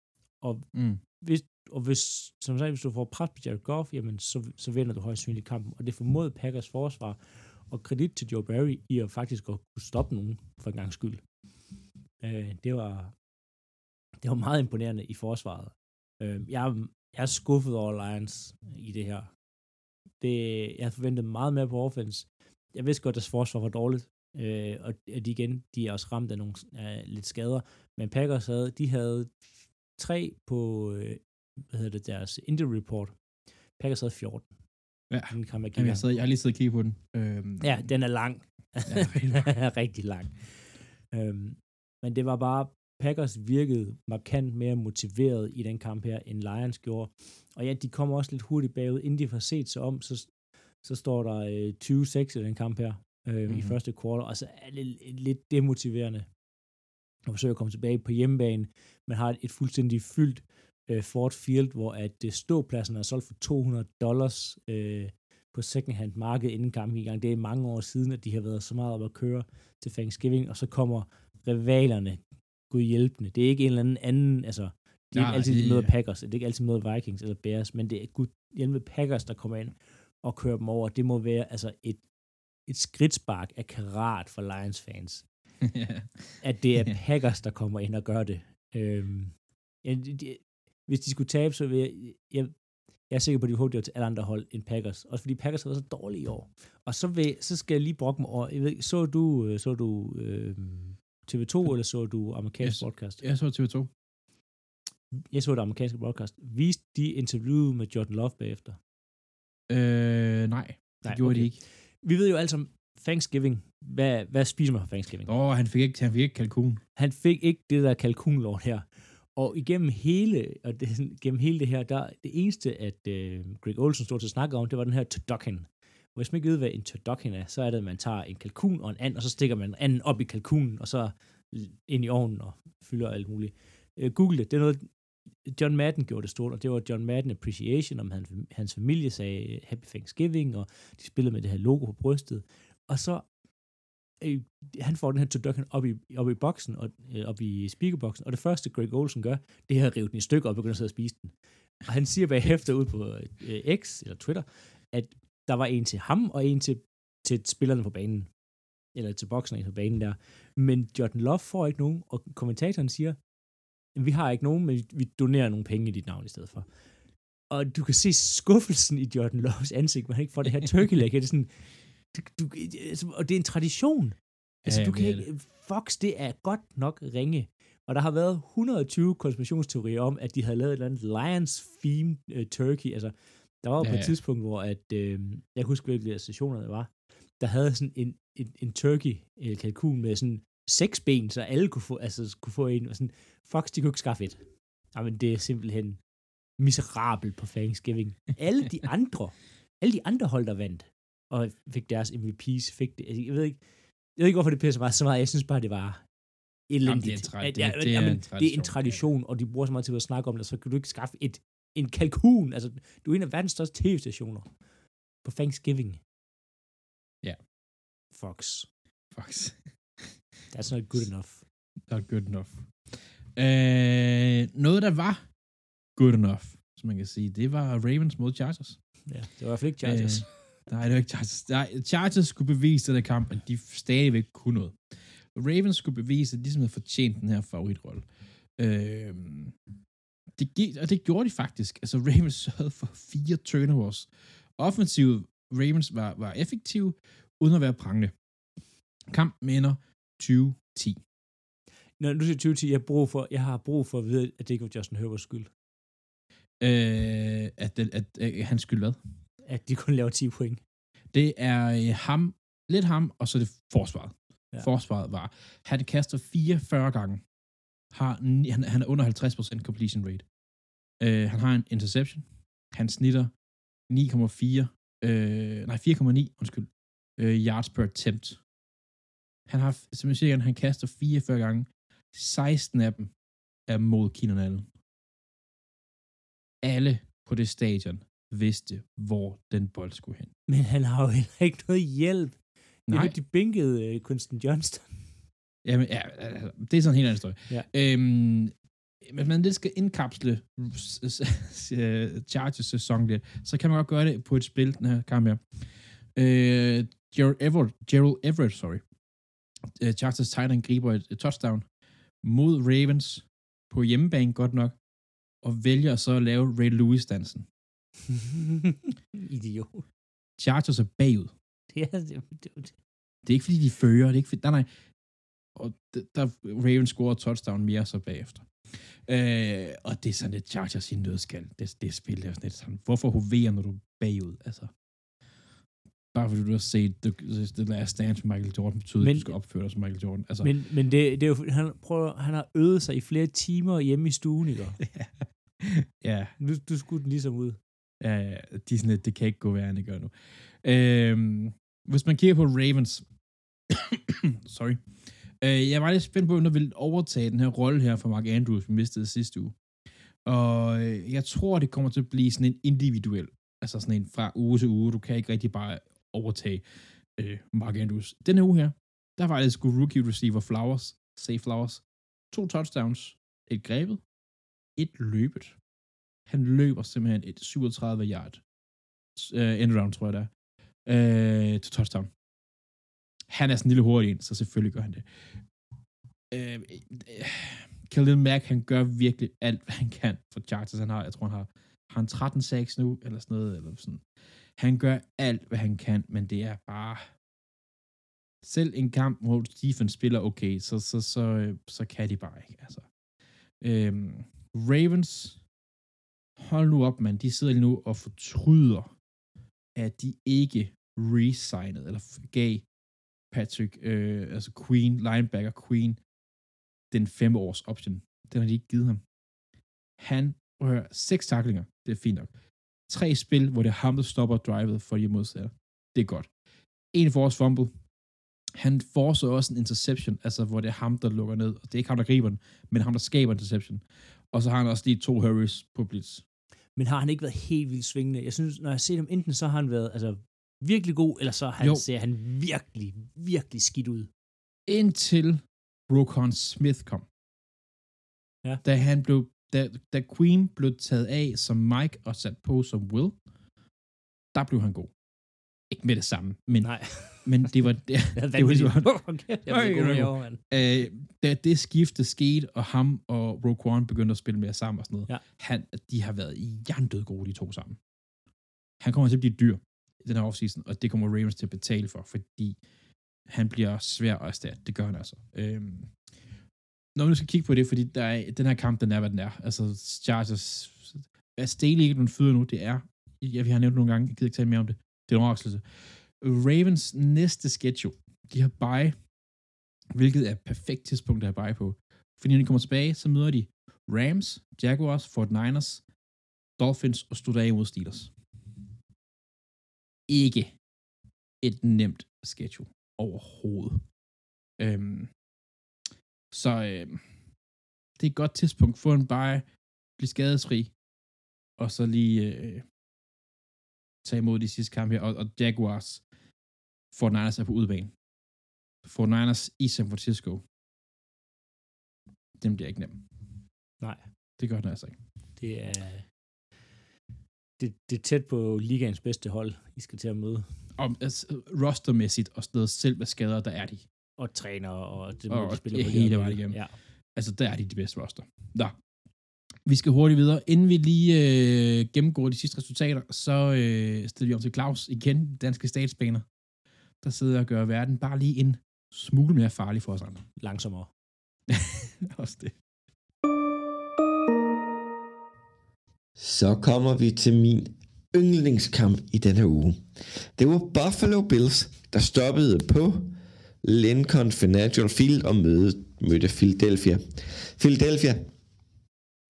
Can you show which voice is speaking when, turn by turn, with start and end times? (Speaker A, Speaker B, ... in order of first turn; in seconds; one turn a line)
Speaker A: 0.4-11.2
Speaker B: 0.7-1.0
Speaker A: 12.2-13.1
Speaker A: 14.2-19.3
Speaker A: 20.2-33.1
Speaker A: 33.8-34.5
Speaker B: 35.1-37.9
Speaker A: 35.3-36.0
Speaker A: 37.6-56.3
Speaker B: 38.9-39.1
Speaker B: 53.5-53.7
Speaker A: 57.3-82.0
Speaker B: 75.1-75.9
Speaker A: 82.7-85.2
Speaker B: 85.6-86.9
Speaker A: 86.4-92.5
Speaker A: 93.1-103.2
Speaker B: 102.6-103.9
Speaker A: 105.3-108.8
Speaker B: 109.7-111.6
Speaker A: 111.0-115.3
Speaker B: 115.2-116.8
Speaker A: 117.0-118.8
Speaker A: 119.3-134.9
Speaker A: 135.4-143.3
Speaker A: 144.2-158.3
Speaker A: 158.9-163.2
Speaker A: 163.9-166.7
Speaker A: 167.5-196.0
Speaker B: 174.7-175.2
Speaker B: 183.8-184.1
Speaker A: 196.6-203.6
Speaker A: 204.2-206.0
Speaker A: 206.7-214.5
Speaker B: 206.8-209.0
Speaker A: 215.2-216.0
Speaker A: 218.1-218.7
Speaker B: 219.1-220.1
Speaker A: 220.5-221.4
Speaker B: 221.9-225.2
Speaker B: 225.9-228.8
Speaker A: 229.1-230.3
Speaker B: 229.8-234.8
Speaker B: 235.3-238.0
Speaker B: 238.6-239.5
Speaker B: 240.4-248.1
Speaker B: 249.1-251.0
Speaker A: 252.0-255.5
Speaker B: 256.6-259.0
Speaker A: 259.4-260.6
Speaker B: 261.1-267.2
Speaker B: 267.9-270.2
Speaker B: 271.0-273.3
Speaker B: 273.9-278.4
Speaker B: 279.5-283.1
Speaker B: 283.7-284.7
Speaker B: 286.6-290.3
Speaker A: 290.5-295.1
Speaker B: 292.9-293.1
Speaker B: 295.6-305.6
Speaker B: 306.1-308.8
Speaker B: 309.8-311.6
Speaker B: 312.2-314.8
Speaker B: 315.4-317.5
Speaker A: 318.1-319.9
Speaker B: 320.4-321.3
Speaker A: 321.7-322.8
Speaker B: 323.2-324.7
Speaker B: 325.5-334.7
Speaker B: 336.1-340.5
Speaker A: 339.0-339.3
Speaker A: 340.4-344.8
Speaker B: 344.8-346.3
Speaker A: 346.4-347.6
Speaker B: 348.0-353.0
Speaker B: 353.7-354.8
Speaker B: 355.4-359.6
Speaker B: 360.2-366.6
Speaker B: 367.2-374.0
Speaker B: 374.8-375.6
Speaker B: 376.3-378.4
Speaker B: 379.1-380.3
Speaker B: 380.9-382.1
Speaker B: 383.3-385.0
Speaker B: 386.3-394.0
Speaker B: 394.6-397.1
Speaker B: 398.4-402.9
Speaker B: 403.6-405.4
Speaker B: 406.4-408.9
Speaker B: 409.7-412.6
Speaker B: 413.3-416.0
Speaker B: 416.9-419.0
Speaker B: 420.0-422.3
Speaker B: 422.9-426.3
Speaker B: 426.9-427.7
Speaker B: 428.6-436.2
Speaker A: 436.8-444.1
Speaker B: 444.7-447.1
Speaker B: 448.6-453.2
Speaker B: 454.3-454.9
Speaker B: 455.7-467.8
Speaker A: 456.6-457.5
Speaker A: 458.1-460.4
Speaker B: 468.8-472.6
Speaker B: 473.3-475.9
Speaker B: 476.9-485.6
Speaker B: 486.2-488.9
Speaker B: 489.9-495.8
Speaker B: 496.6-498.1
Speaker B: 500.1-500.5
Speaker B: 501.4-503.8
Speaker B: 504.6-505.1
Speaker B: 506.3-507.0
Speaker B: 508.0-509.4
Speaker B: 510.0-510.7
Speaker B: 511.6-512.6
Speaker B: 514.0-516.0
Speaker B: 516.9-517.9
Speaker B: 518.8-520.4
Speaker B: 522.4-523.0
Speaker A: 523.8-524.1
Speaker B: 524.4-525.0
Speaker A: 525.4-526.1
Speaker A: 527.6-530.5
Speaker B: 530.8-533.9
Speaker A: 534.2-536.8
Speaker B: 535.3-536.6
Speaker B: 537.1-538.7
Speaker B: 539.6-546.2
Speaker B: 547.0-550.2
Speaker A: 550.4-550.9
Speaker B: 551.5-552.5
Speaker C: 556.1-568.3